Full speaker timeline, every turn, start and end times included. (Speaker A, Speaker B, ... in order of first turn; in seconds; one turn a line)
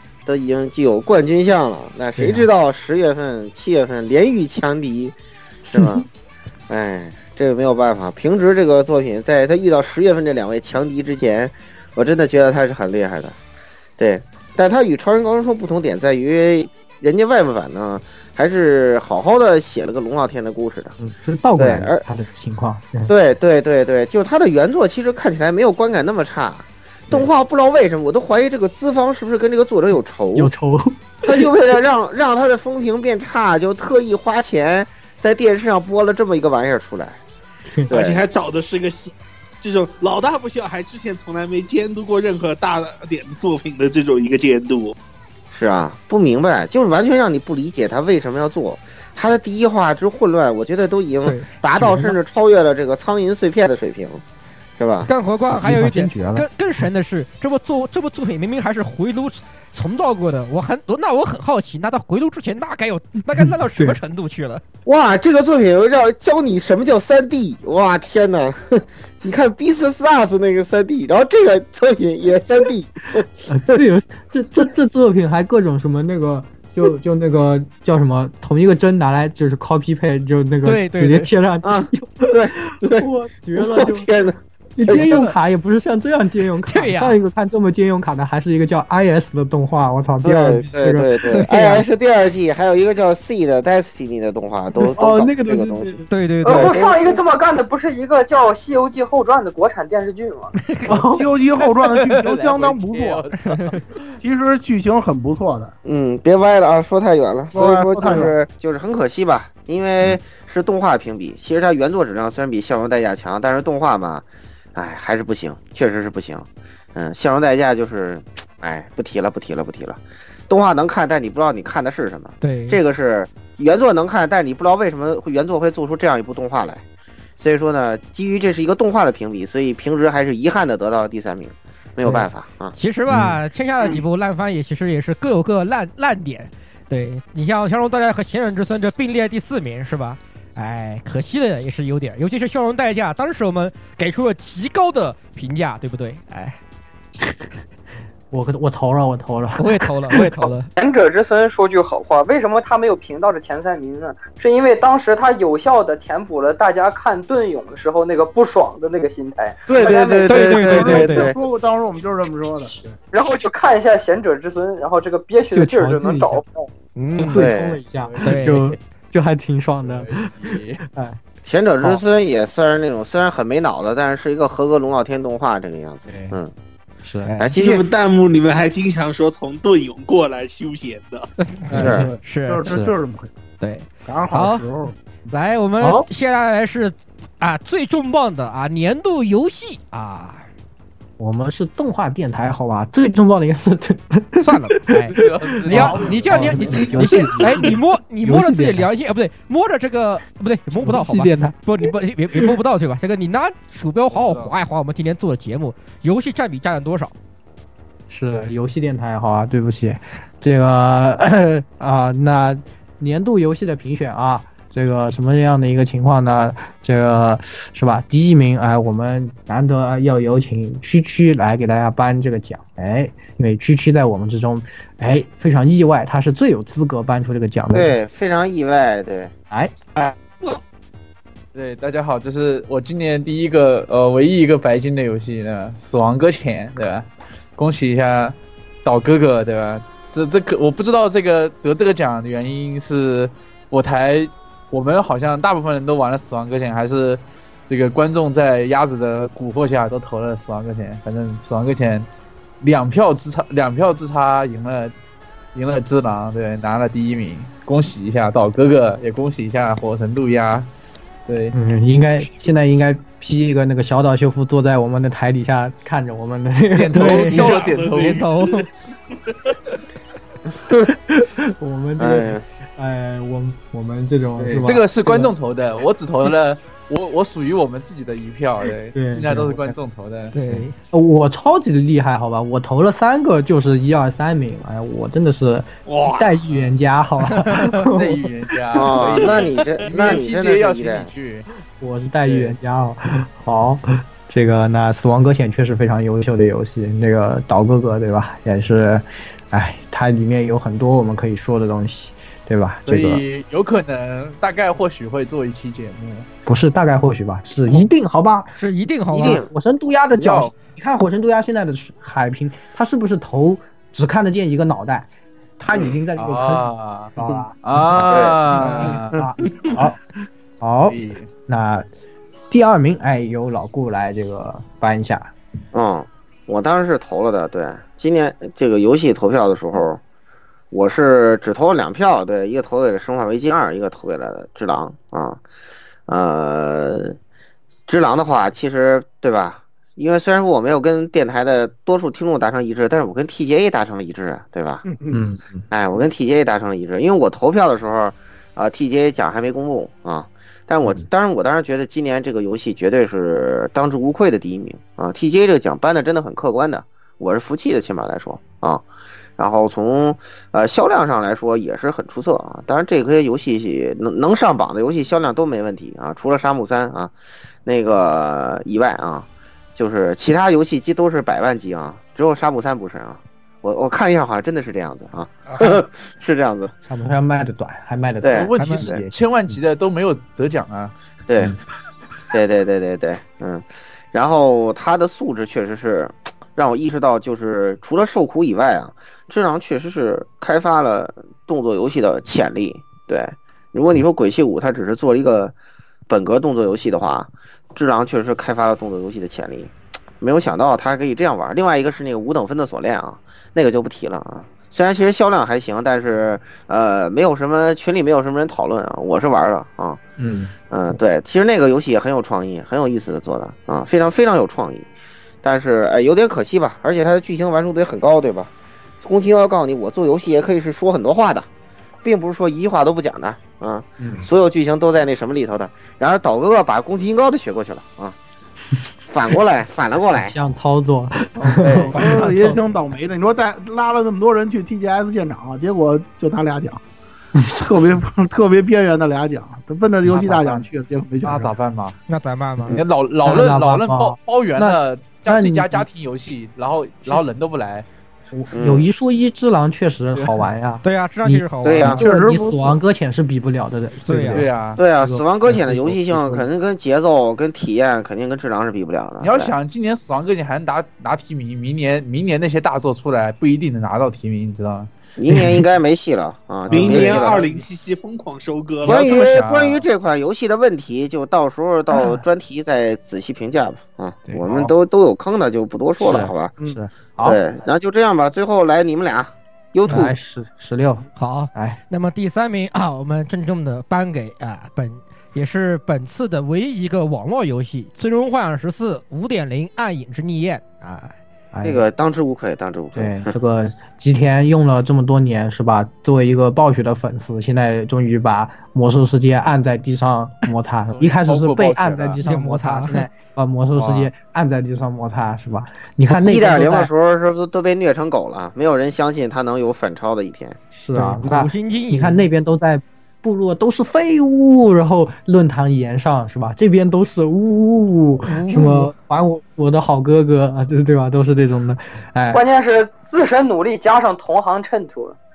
Speaker A: 0.3-5.2
Speaker B: 2.2-2.5
Speaker B: 5.7-6.0
Speaker A: 5.7-6.0
Speaker A: 6.7-13.4
Speaker A: 14.0-21.0
Speaker B: 21.0-23.1
Speaker A: 21.6-22.0
Speaker A: 23.1-30.5
Speaker B: 30.4-31.5
Speaker A: 31.2-37.2
Speaker A: 37.9-38.2
Speaker C: 37.9-45.0
Speaker A: 45.5-54.2
Speaker D: 51.2-52.1
Speaker A: 54.8-55.1
Speaker D: 55.1-64.6
Speaker B: 55.6-56.5
Speaker B: 63.4-64.0
Speaker A: 64.8-73.8
Speaker B: 73.5-84.1
Speaker D: 80.7-81.3
Speaker A: 81.6-85.2
Speaker B: 84.8-91.5
Speaker E: 84.9-85.3
Speaker D: 86.7-87.2
Speaker A: 90.2-97.2
Speaker D: 91.3-91.8
Speaker B: 94.8-96.0
Speaker D: 96.1-96.8
Speaker F: 96.5-100.6
Speaker B: 100.9-101.3
Speaker G: 101.0-103.2
Speaker E: 102.1-104.0
Speaker D: 103.5-103.8
Speaker G: 104.2-105.7
Speaker A: 105.8-126.8
Speaker G: 107.5-108.3
Speaker D: 122.4-122.8
Speaker A: 127.4-132.7
Speaker D: 132.1-146.6
Speaker B: 133.1-133.4
Speaker B: 148.3-150.3
Speaker D: 149.6-150.7
Speaker F: 150.8-160.9
Speaker A: 159.7-161.4
Speaker D: 160.3-161.3
Speaker G: 160.6-162.7
Speaker F: 163.1-166.7
Speaker B: 165.5-166.4
Speaker D: 167.0-167.4
Speaker B: 167.2-171.2
Speaker A: 167.3-167.8
Speaker D: 168.2-168.6
Speaker E: 168.3-168.6
Speaker E: 169.8-170.8
Speaker A: 171.4-176.5
Speaker B: 177.0-177.4
Speaker A: 177.4-177.9
Speaker C: 177.6-181.3
Speaker D: 181.4-182.7
Speaker B: 181.7-182.1
Speaker A: 181.7-182.1
Speaker G: 181.9-183.3
Speaker B: 182.7-182.9
Speaker D: 183.6-184.6
Speaker G: 184.1-184.9
Speaker D: 185.3-190.5
Speaker B: 185.8-186.1
Speaker B: 191.2-198.9
Speaker D: 194.4-207.1
Speaker E: 195.2-197.7
Speaker B: 200.7-201.6
Speaker E: 204.1-204.5
Speaker B: 208.1-228.0
Speaker A: 227.7-229.3
Speaker B: 229.5-229.8
Speaker E: 231.5-252.1
Speaker E: 252.6-254.9
Speaker E: 255.5-260.7
Speaker E: 261.3-261.6
Speaker B: 261.5-267.6
Speaker E: 266.7-268.2
Speaker D: 266.9-268.7
Speaker C: 267.2-268.7
Speaker B: 270.9-275.3
Speaker A: 272.0-272.4
Speaker E: 274.4-280.3
Speaker B: 278.9-279.8
Speaker D: 280.3-280.8
Speaker B: 280.5-288.3
Speaker C: 285.9-286.3
Speaker E: 287.9-291.5
Speaker A: 288.7-291.1
Speaker B: 291.8-303.2
Speaker E: 292.2-292.6
Speaker E: 302.9-306.3
Speaker B: 306.5-308.5
Speaker D: 308.6-309.4
Speaker A: 309.1-309.5
Speaker B: 309.2-320.0
Speaker E: 310.2-310.5
Speaker E: 316.2-319.0
Speaker A: 318.1-318.4
Speaker D: 318.6-318.9
Speaker B: 320.6-321.9
Speaker E: 320.9-321.3
Speaker B: 322.5-325.3
Speaker A: 325.7-330.0
Speaker A: 330.7-335.4
Speaker A: 336.1-337.2
Speaker A: 337.9-344.8
Speaker G: 344.8-345.2
Speaker B: 345.1-345.7
Speaker A: 345.7-358.9
Speaker A: 359.4-367.1
Speaker A: 367.6-376.7
Speaker B: 376.9-379.6
Speaker A: 378.2-378.5
Speaker E: 378.4-380.9
Speaker A: 381.3-381.6
Speaker A: 382.3-395.5
Speaker A: 396.1-410.0
Speaker B: 410.2-410.5
Speaker A: 410.7-414.9
Speaker A: 415.4-418.5
Speaker A: 419.0-421.5
Speaker A: 422.0-428.2
Speaker B: 424.0-424.3
Speaker A: 429.1-430.4
Speaker B: 430.1-432.6
Speaker G: 431.5-436.8
Speaker A: 431.6-432.2
Speaker D: 432.0-432.6
Speaker G: 437.5-441.6
Speaker E: 440.1-440.6
Speaker B: 440.1-440.6
Speaker E: 441.2-442.0
Speaker D: 442.1-442.8
Speaker B: 442.6-445.9
Speaker E: 442.7-447.9
Speaker B: 448.3-456.5
Speaker A: 448.5-448.9
Speaker E: 450.2-450.4
Speaker D: 450.8-452.4
Speaker A: 451.6-452.4
Speaker G: 452.0-452.8
Speaker D: 454.1-454.5
Speaker E: 454.3-454.8
Speaker A: 454.8-459.5
Speaker E: 459.2-464.9
Speaker A: 465.2-467.4
Speaker B: 465.3-465.6
Speaker E: 466.7-467.7
Speaker C: 466.7-469.2
Speaker E: 468.8-469.8
Speaker A: 468.8-476.5
Speaker B: 471.9-472.2
Speaker B: 474.3-474.7
Speaker B: 476.0-477.4
Speaker A: 477.2-480.1
Speaker B: 479.9-481.8
Speaker D: 481.2-490.6
Speaker B: 490.8-491.9
Speaker A: 491.6-493.3
Speaker B: 492.9-506.9
Speaker E: 500.9-502.2
Speaker D: 502.2-503.1
Speaker E: 503.8-504.1
Speaker A: 506.1-510.6
Speaker B: 510.8-522.4
Speaker D: 510.9-512.2
Speaker D: 518.3-518.9
Speaker F: 522.3-525.2